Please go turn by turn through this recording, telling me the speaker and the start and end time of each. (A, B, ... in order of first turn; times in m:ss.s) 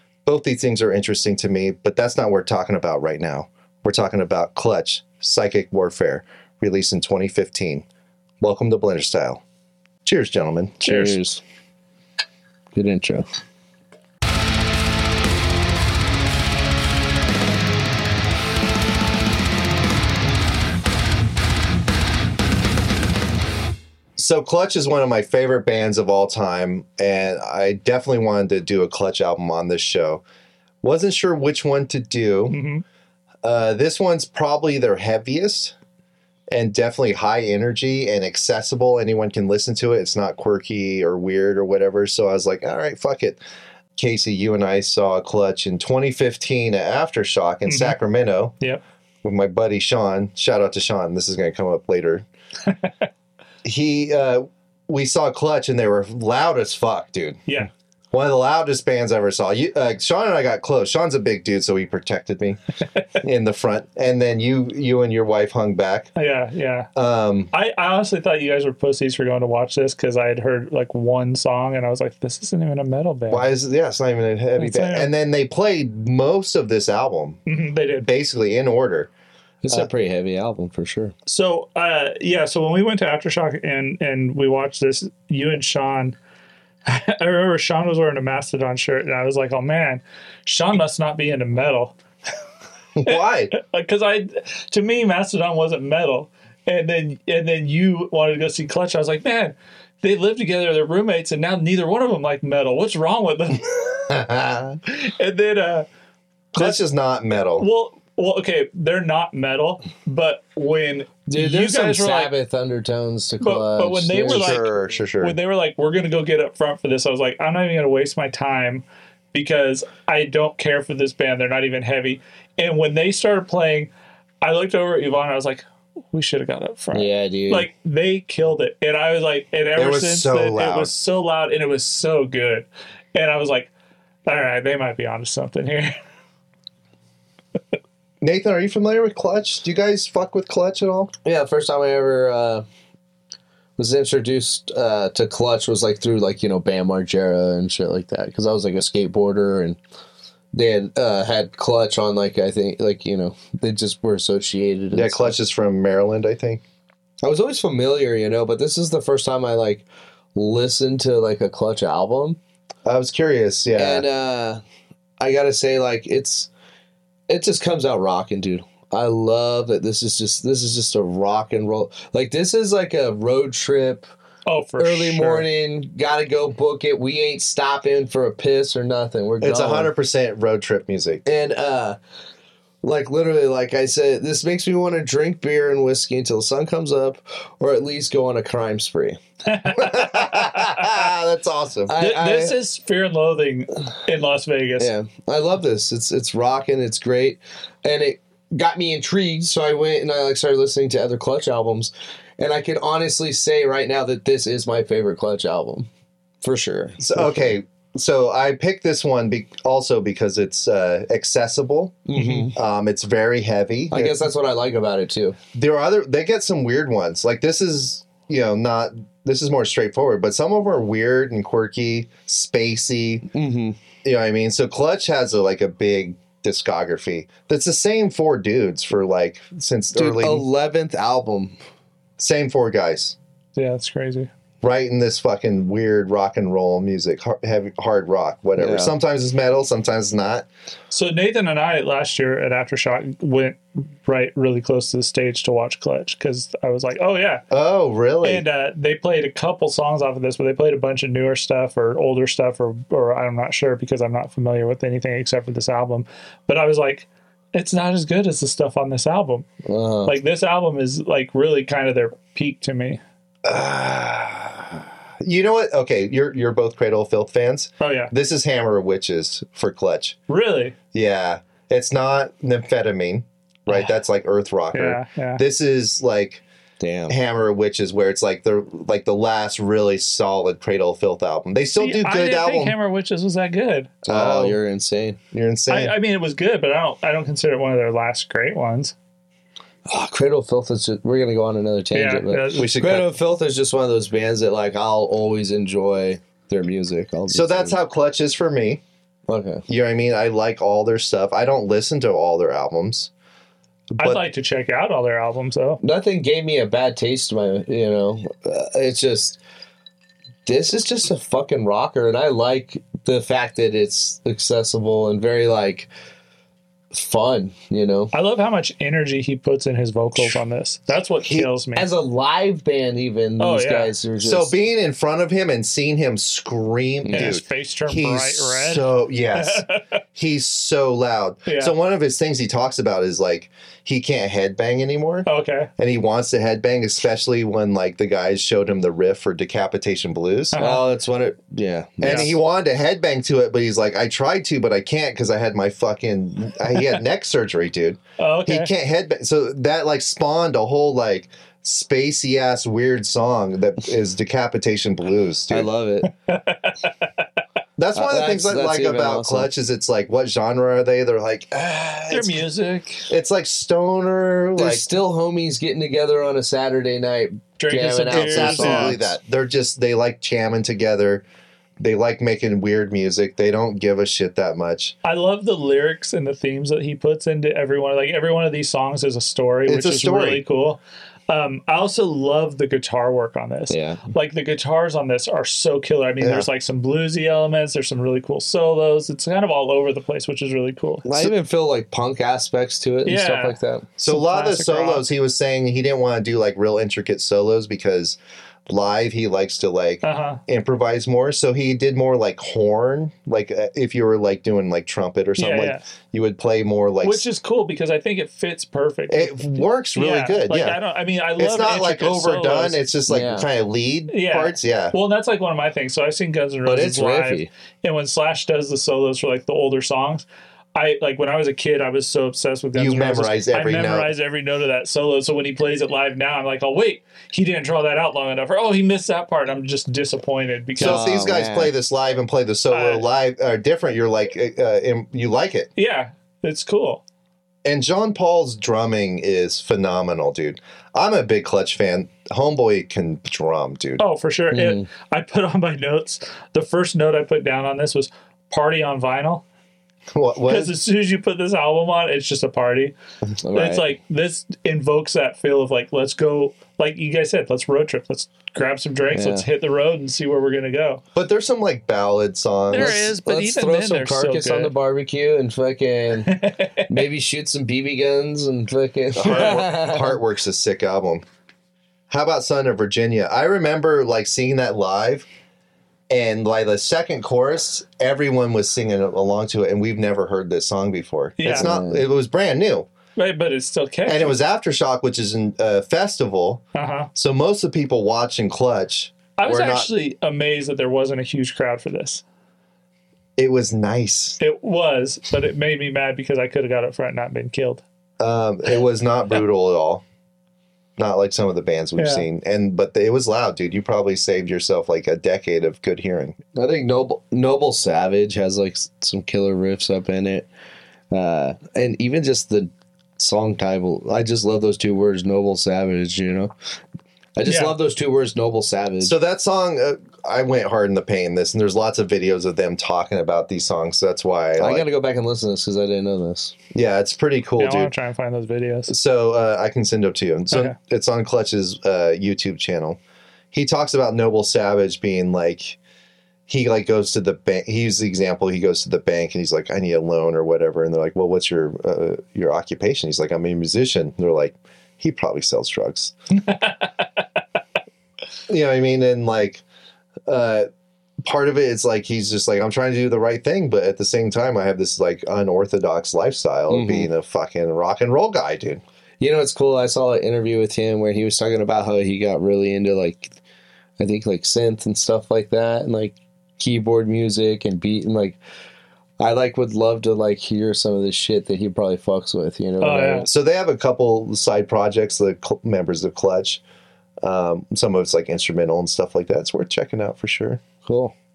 0:00.2-0:07.8 A
0:08.4-0:09.4 A
0:10.0-0:10.8 A
0:10.8-0:11.4 B
0:10.8-0:11.2 C
0:12.7-0:13.2 B
0:24.2-0:30.2 A
0:30.8-0:32.6 A
0:32.5-0:32.8 C
0:33.4-0:35.7 A
0:36.5-0:43.4 A
0:44.0-0:48.5 A
0:47.7-0:48.0 C
0:49.2-0:52.2 A
0:53.6-0:57.4 A
0:58.1-1:02.6 A
1:03.2-1:06.1 A
1:06.1-1:06.9 C
1:06.9-1:07.5 A
1:07.5-1:13.5 C
1:13.3-1:17.4 A
1:14.6-1:15.1 C
1:17.4-1:18.1 C
1:18.0-1:19.1 A
1:19.6-1:21.1 B
1:21.2-1:26.2 C
1:26.8-1:31.9 C
1:33.0-1:33.5 A
1:33.0-1:44.3 C
1:44.1-1:44.8 A
1:44.8-1:45.9 C
1:46.5-1:47.6 A
1:46.6-1:46.8 C
1:47.6-1:52.3 C
1:51.3-1:54.6 B
1:53.4-2:03.9 C
1:54.3-1:55.4 A
2:04.4-2:13.7 C
2:06.9-2:07.7 B
2:09.7-2:10.9 A
2:14.2-2:15.9 C
2:18.2-2:21.1 A
2:21.2-2:22.6 B
2:23.8-2:29.8 B
2:30.5-2:35.3 B
2:34.9-2:36.6 A
2:37.2-2:42.4 B
2:42.8-2:44.1 A
2:43.8-2:44.6 B
2:45.2-2:46.5 B
2:47.3-2:54.1 B
2:54.4-2:55.5 C
2:54.8-2:59.9 B
2:59.4-3:01.2 A
3:01.2-3:02.0 B
3:02.8-3:09.2 B
3:09.5-3:11.1 C
3:09.7-3:12.0 A
3:11.9-3:12.5 B
3:12.0-3:14.9 C
3:14.8-3:25.9 B
3:26.4-3:27.5 B
3:27.0-3:34.2 A
3:32.1-3:32.5 B
3:33.9-3:35.4 B
3:35.5-3:43.3 A
3:43.3-3:43.8 B
3:44.0-3:50.4 A
3:49.9-3:51.6 B
3:52.2-3:53.2 A
3:53.6-3:54.3 C
3:54.6-4:00.5 A
3:58.6-3:58.9 B
4:00.9-4:07.4 C
4:07.5-4:08.4 A
4:08.2-4:19.4 C
4:19.6-4:20.2 B
4:20.0-4:23.0 C
4:23.4-4:30.2 A
4:27.8-4:28.1 C
4:30.3-4:30.7 C
4:30.9-4:36.4 A
4:33.7-4:33.9 C
4:34.7-4:35.4 C
4:36.8-4:37.1 B
4:37.1-4:42.8 A
4:41.8-4:44.0 C
4:44.0-4:45.2 B
4:44.1-4:44.6 A
4:45.3-4:46.0 A
4:45.7-4:48.9 C
4:49.9-4:57.8 B
4:51.9-4:52.7 C
4:52.5-4:53.1 A
4:57.3-4:58.8 A
4:59.3-4:59.6 B
4:59.7-5:03.1 A
5:03.9-5:04.2 A
5:04.0-5:05.8 C
5:05.8-5:09.4 B
5:10.4-5:15.9 B
5:16.9-5:18.1 B
5:18.1-5:21.9 C
5:21.2-5:21.5 A
5:21.8-5:24.6 B
5:23.4-5:23.9 C
5:24.2-5:40.6 A
5:27.0-5:27.4 B
5:27.1-5:29.8 C
5:31.4-5:31.7 C
5:35.2-5:35.7 C
5:40.5-5:40.8 C
5:40.6-5:42.4 B
5:42.0-5:55.7 A
5:42.0-5:42.3 C
5:48.2-5:48.7 C
5:55.5-5:56.1 B
5:56.0-5:57.1 C
5:57.8-6:02.4 A
5:57.9-5:59.5 B
6:02.1-6:03.1 C
6:03.1-6:04.9 A
6:04.6-6:09.1 B
6:07.6-6:09.0 C
6:08.1-6:11.2 A
6:11.8-6:14.9 A
6:15.0-6:31.1 C
6:19.6-6:20.4 A
6:23.7-6:24.1 B
6:26.2-6:26.5 A
6:31.0-6:33.9 B
6:33.0-6:35.0 C
6:34.0-6:47.2 A
6:40.0-6:40.4 C
6:45.4-6:45.8 C
6:47.0-6:52.8 C
6:49.1-6:50.8 A
6:51.4-6:54.9 A
6:53.1-6:53.5 B
6:54.1-7:11.1 C
6:56.6-6:57.5 B
7:02.7-7:04.1 A
7:10.8-7:15.7 A
7:10.8-7:11.7 B
7:12.7-7:13.0 C
7:15.8-7:17.0 C
7:17.6-7:24.0 A
7:24.0-7:29.4 C
7:24.5-7:24.8 B
7:30.1-7:30.7 A
7:30.4-7:32.9 C
7:33.4-7:33.9 B
7:33.5-7:41.0 C
7:39.1-7:39.5 B
7:41.1-7:43.1 A
7:42.7-7:44.7 C
7:42.7-7:50.2 B
7:46.2-7:47.0 C
7:49.2-7:51.2 A
7:49.3-7:49.6 C
7:52.1-7:55.3 A
7:56.1-8:02.9 A
8:01.4-8:01.7 C
8:01.5-8:02.0 B
8:03.2-8:04.4 C
8:04.0-8:06.6 A
8:06.7-8:07.1 C
8:07.1-8:09.9 A
8:09.4-8:12.2 C
8:13.4-8:14.4 A
8:14.4-8:17.8 C
8:18.2-8:20.0 A
8:21.0-8:26.4 A
8:22.0-8:22.3 C
8:26.5-8:30.5 B
8:31.1-8:36.5 B
8:37.4-8:39.1 B
8:37.4-8:37.8 C
8:39.0-8:44.8 A
8:44.6-8:46.5 B
8:46.7-8:47.9 A
8:47.6-8:48.9 C
8:48.9-8:53.0 A
8:53.5-8:55.8 A
8:56.5-9:06.1 A
9:06.5-9:07.0 C
9:08.5-9:09.6 A
9:10.3-9:10.7 A
9:11.2-9:18.8 A
9:16.7-9:17.1 B
9:19.2-9:23.4 B
9:24.0-9:28.4 B
9:29.2-9:33.3 B
9:32.8-9:33.3 C
9:33.2-9:36.6 A
9:37.2-9:40.6 A
9:40.8-9:41.1 B